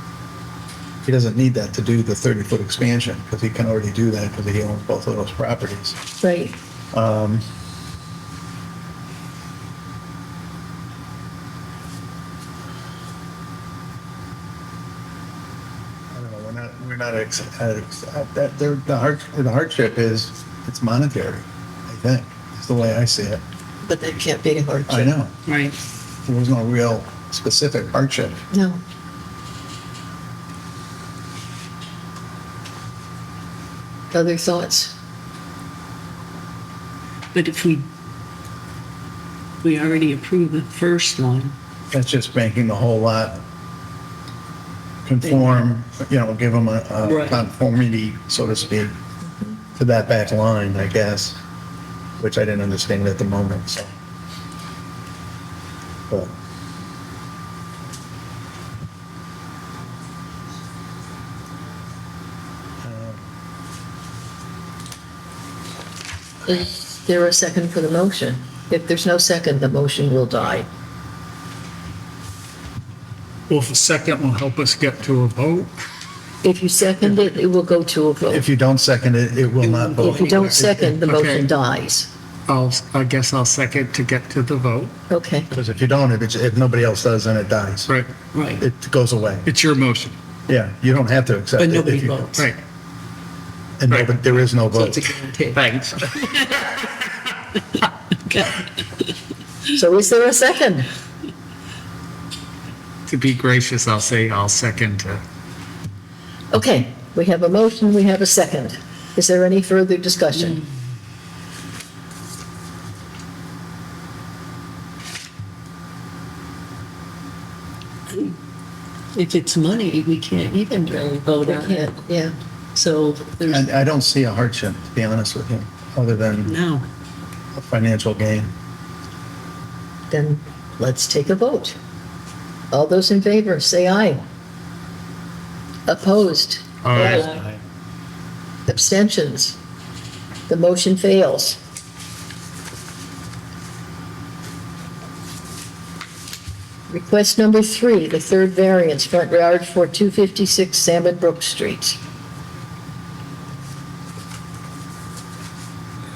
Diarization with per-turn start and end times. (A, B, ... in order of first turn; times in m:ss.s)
0:01.0-0:06.0 A
0:06.2-0:06.5 B
0:06.9-0:07.4 A
0:16.1-0:23.4 A
0:23.8-0:25.1 B
0:24.9-0:25.4 A
0:26.3-0:28.4 A
0:28.5-0:28.8 B
0:34.1-0:34.9 B
0:37.3-0:37.8 C
0:39.6-0:41.5 C
0:41.9-0:43.4 A
0:45.0-0:48.9 A
0:49.8-0:51.4 A
0:52.2-0:53.9 A
1:02.8-1:03.2 A
1:06.4-1:10.7 B
1:13.5-1:15.7 D
1:16.4-1:18.4 B
1:18.2-1:20.9 A
1:19.6-1:20.0 C
1:20.0-1:21.5 D
1:20.0-1:22.1 B
1:22.5-1:24.9 D
1:25.1-1:25.5 B
1:25.5-1:27.9 A
1:27.9-1:28.2 D
1:28.3-1:28.6 C
1:28.6-1:29.4 A
1:29.4-1:30.1 D
1:30.5-1:32.5 A
1:31.6-1:32.3 C
1:32.3-1:32.6 D
1:33.8-1:35.1 A
1:33.9-1:34.1 D
1:34.8-1:35.6 C
1:35.5-1:37.0 D
1:39.7-1:40.8 B
1:43.1-1:45.2 D
1:46.5-1:50.2 B
1:48.2-1:48.6 C
1:49.4-1:50.6 C
1:59.2-2:02.0 C
2:01.4-2:02.3 B
2:02.8-2:03.6 C
2:03.4-2:06.6 A
2:06.5-2:06.8 C
2:07.5-2:08.5 A
2:10.1-2:11.8 B
2:12.7-2:14.2 B
2:15.9-2:17.2 B
2:16.8-2:17.3 D
2:17.0-2:17.6 A
2:18.7-2:19.6 B
2:20.5-2:21.6 B
2:26.9-2:32.0 B